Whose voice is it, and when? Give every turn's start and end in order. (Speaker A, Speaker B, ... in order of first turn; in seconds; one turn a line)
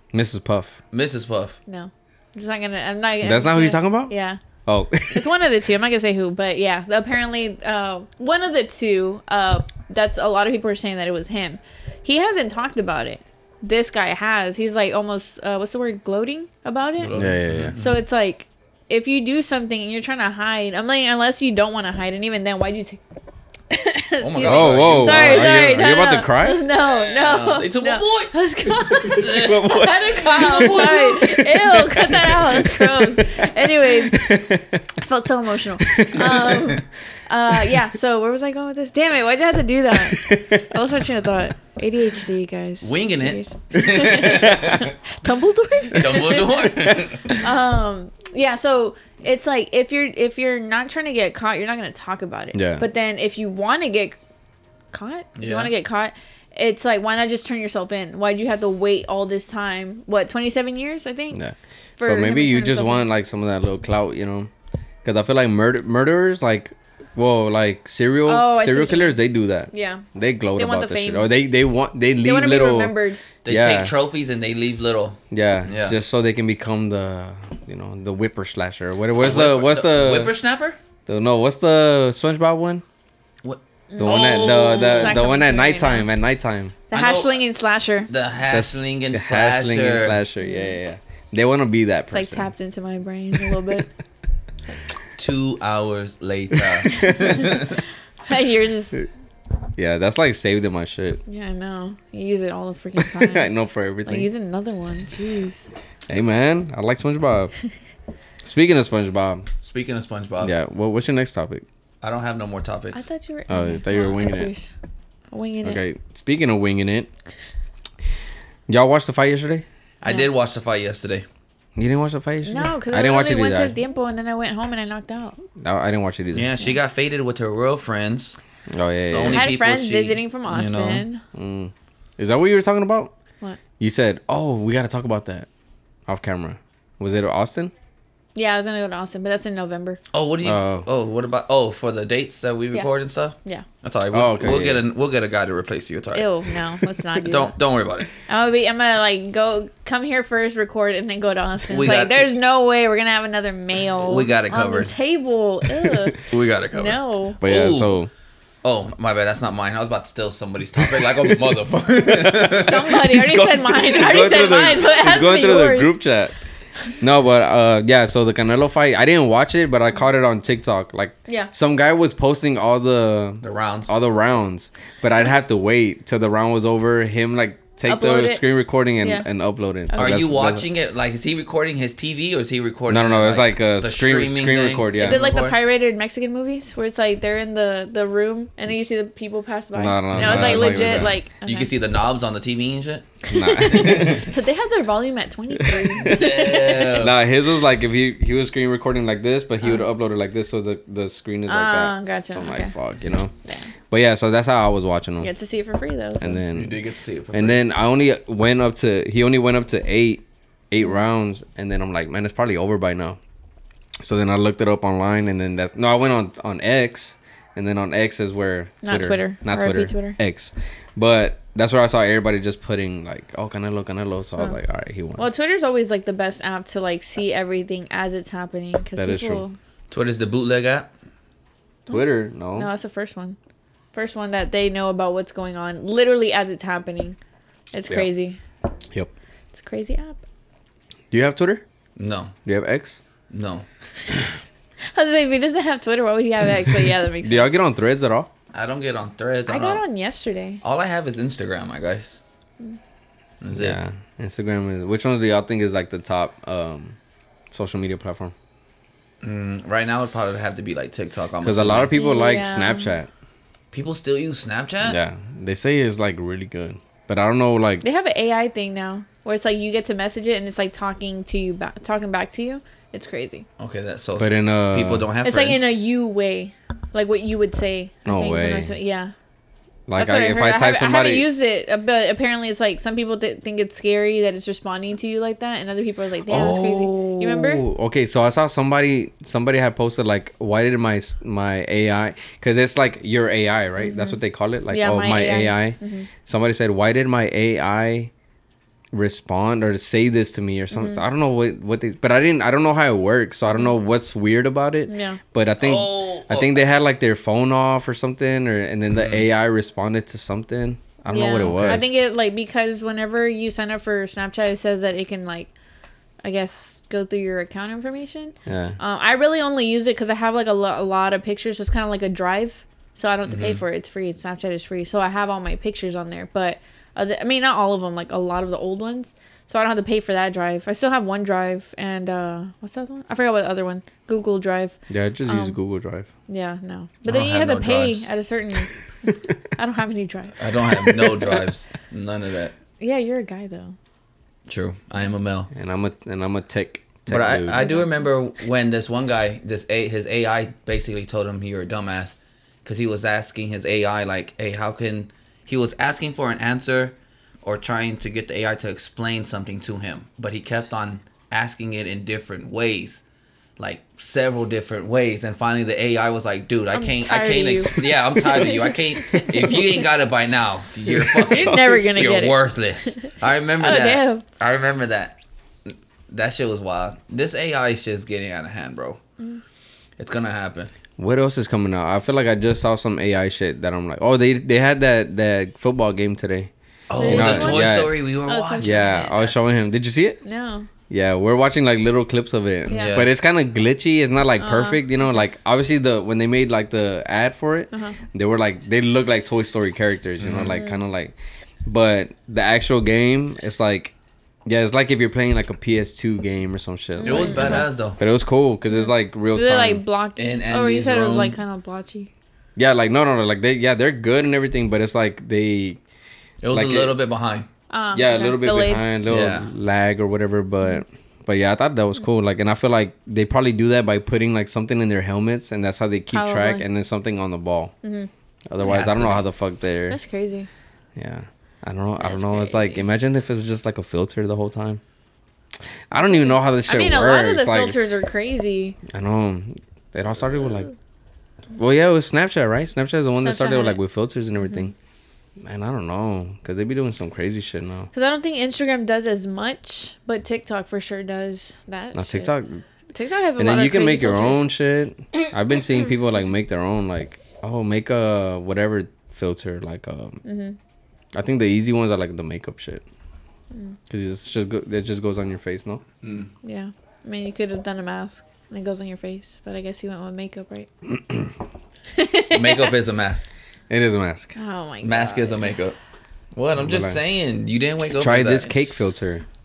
Speaker A: 0.1-0.8
Speaker B: 0.9-1.6
Speaker C: 1.7-4.4
Speaker A: 3.2-4.1
Speaker A: 4.7-5.4
Speaker C: 5.1-17.2
Speaker B: 17.0-17.8
Speaker A: 17.1-17.8
Speaker C: 17.8-23.0
Speaker C: 23.7-34.4
Speaker B: 24.2-25.6
Speaker A: 24.4-26.6
Speaker B: 26.9-28.3
Speaker B: 28.8-31.4
Speaker A: 29.3-34.9
Speaker C: 35.0-46.7
Speaker A: 35.8-36.8
Speaker A: 39.9-40.8
Speaker B: 42.8-44.9
Speaker A: 44.2-44.9
Speaker B: 45.9-47.4
Speaker C: 47.4-54.2
Speaker A: 52.5-52.9
Speaker C: 54.9-61.4
Speaker B: 55.4-55.7
Speaker A: 61.3-64.5
Speaker C: 62.0-63.1
Speaker A: 65.0-73.9
Speaker C: 68.3-70.0
Speaker C: 70.6-71.3
Speaker C: 72.2-73.2
Speaker B: 73.5-76.0
Speaker A: 75.3-80.3
Speaker B: 79.2-80.8
Speaker A: 81.1-82.8
Speaker B: 83.4-85.2
Speaker C: 83.9-86.1
Speaker A: 84.0-86.8
Speaker C: 86.9-88.1
Speaker B: 86.9-87.4
Speaker B: 88.1-90.2
Speaker A: 88.5-92.5
Speaker C: 90.4-90.8
Speaker C: 92.1-93.9
Speaker B: 95.2-97.8
Speaker A: 96.5-97.3
Speaker C: 96.9-97.6
Speaker C: 98.3-99.0
Speaker A: 99.8-101.2
Speaker C: 101.3-103.5
Speaker A: 103.0-104.3
Speaker C: 104.1-105.7
Speaker A: 106.1-107.5
Speaker A: 108.4-109.5
Speaker B: 109.6-110.5
Speaker A: 110.4-111.6
Speaker B: 112.0-113.0
Speaker C: 112.9-114.7
Speaker A: 113.5-114.5
Speaker C: 115.3-115.8
Speaker A: 115.6-117.1
Speaker A: 118.7-119.7
Speaker B: 120.0-121.3
Speaker A: 121.8-123.8
Speaker C: 122.5-125.4
Speaker A: 125.6-126.5
Speaker B: 126.3-128.4
Speaker A: 128.7-129.5
Speaker B: 129.1-131.1
Speaker C: 129.3-131.2
Speaker A: 131.3-133.1
Speaker A: 133.8-135.5
Speaker A: 136.1-137.7
Speaker C: 138.3-140.0
Speaker B: 140.1-146.3
Speaker A: 140.4-140.9
Speaker A: 144.1-144.8
Speaker C: 146.1-147.6
Speaker B: 147.2-148.1
Speaker C: 148.3-157.4
Speaker B: 151.7-152.3
Speaker B: 154.0-154.9
Speaker B: 156.2-158.0
Speaker A: 157.4-158.1
Speaker B: 158.6-163.0
Speaker A: 160.9-161.4
Speaker A: 162.0-166.4
Speaker C: 162.5-166.0
Speaker A: 167.0-180.7
Speaker C: 171.3-171.5
Speaker B: 173.4-173.9
Speaker C: 177.9-178.4
Speaker C: 179.0-179.3
Speaker C: 179.9-180.2
Speaker B: 179.9-185.6
Speaker A: 182.9-185.2
Speaker C: 185.0-191.7
Speaker A: 189.8-191.2
Speaker B: 190.1-194.2
Speaker C: 193.3-197.0
Speaker A: 193.3-194.2
Speaker A: 195.7-196.2
Speaker B: 196.0-197.2
Speaker A: 196.9-203.3
Speaker C: 201.5-202.7
Speaker A: 203.9-205.3
Speaker C: 205.2-206.4
Speaker A: 206.2-206.8
Speaker B: 206.5-207.6
Speaker A: 207.3-213.2
Speaker A: 214.0-225.2
Speaker C: 218.8-220.2
Speaker C: 225.2-229.6
Speaker A: 229.0-229.4
Speaker B: 229.9-230.9
Speaker A: 231.9-232.7
Speaker C: 231.9-233.4
Speaker C: 233.9-237.2
Speaker C: 237.7-238.4
Speaker C: 239.5-240.2
Speaker A: 241.1-241.6
Speaker B: 242.0-242.4
Speaker A: 242.4-243.0
Speaker B: 243.3-243.7
Speaker C: 244.9-247.6
Speaker A: 247.2-248.3
Speaker B: 248.5-249.8
Speaker C: 249.5-250.6
Speaker B: 250.6-252.2
Speaker B: 253.4-253.8
Speaker A: 253.5-257.0
Speaker A: 257.5-258.3
Speaker B: 259.2-261.9
Speaker A: 261.4-263.1
Speaker C: 261.9-263.0
Speaker B: 263.7-265.0
Speaker A: 264.8-267.8
Speaker C: 267.8-273.4
Speaker B: 273.6-275.7
Speaker A: 274.2-275.1
Speaker C: 275.2-279.1
Speaker A: 278.1-278.7
Speaker A: 279.9-281.3
Speaker C: 280.0-287.6
Speaker A: 286.3-298.1
Speaker C: 293.8-296.1
Speaker A: 298.9-311.9
Speaker C: 300.7-301.0
Speaker C: 304.9-305.2
Speaker B: 305.6-306.6
Speaker B: 308.9-309.2
Speaker C: 311.1-315.5
Speaker B: 311.4-311.9
Speaker C: 316.2-335.6
Speaker A: 318.5-318.8
Speaker B: 323.3-323.6
Speaker A: 334.9-336.1
Speaker C: 336.3-340.4
Speaker B: 337.1-338.1
Speaker B: 340.4-342.5
Speaker A: 340.9-341.3
Speaker C: 342.8-343.8
Speaker B: 344.5-345.5
Speaker A: 345.5-347.6
Speaker B: 347.1-363.0
Speaker C: 347.5-348.1
Speaker B: 363.6-379.0
Speaker C: 366.7-369.9
Speaker A: 371.1-371.8
Speaker C: 371.2-374.2
Speaker B: 380.0-380.7
Speaker A: 381.0-386.5
Speaker B: 386.9-389.5
Speaker C: 387.0-389.2
Speaker A: 387.0-387.9
Speaker A: 388.6-390.2
Speaker C: 390.2-390.7
Speaker A: 390.9-403.9
Speaker C: 392.7-393.0
Speaker B: 392.7-393.1
Speaker C: 394.4-395.2
Speaker C: 397.7-398.0
Speaker B: 400.2-400.6
Speaker C: 400.6-400.8
Speaker A: 404.5-409.8
Speaker C: 407.0-407.7
Speaker B: 407.0-408.0
Speaker C: 408.7-412.1
Speaker B: 410.2-411.4
Speaker A: 412.6-415.8
Speaker B: 416.4-417.5
Speaker A: 416.5-416.9
Speaker C: 417.7-418.9
Speaker A: 417.9-427.7
Speaker B: 419.1-419.5
Speaker C: 426.1-426.6
Speaker C: 427.8-428.1
Speaker A: 428.5-430.0
Speaker B: 428.6-429.2
Speaker C: 429.9-430.5
Speaker A: 431.0-434.8
Speaker C: 432.0-432.9
Speaker A: 435.9-437.8
Speaker C: 436.1-438.8
Speaker A: 438.9-440.7
Speaker A: 441.5-444.7
Speaker C: 443.2-443.8
Speaker C: 444.4-444.7
Speaker A: 445.4-447.9
Speaker C: 447.9-452.3
Speaker A: 451.9-452.6
Speaker C: 452.9-454.5
Speaker A: 453.4-460.2
Speaker C: 460.2-460.6
Speaker A: 461.1-462.8
Speaker C: 463.5-463.8
Speaker A: 463.9-465.8
Speaker B: 466.0-466.3
Speaker C: 466.4-470.7
Speaker C: 471.9-472.7
Speaker B: 472.3-473.3
Speaker A: 473.7-474.4
Speaker C: 474.4-475.5
Speaker B: 474.8-475.8
Speaker B: 476.4-478.8
Speaker A: 476.6-477.0
Speaker A: 477.9-479.2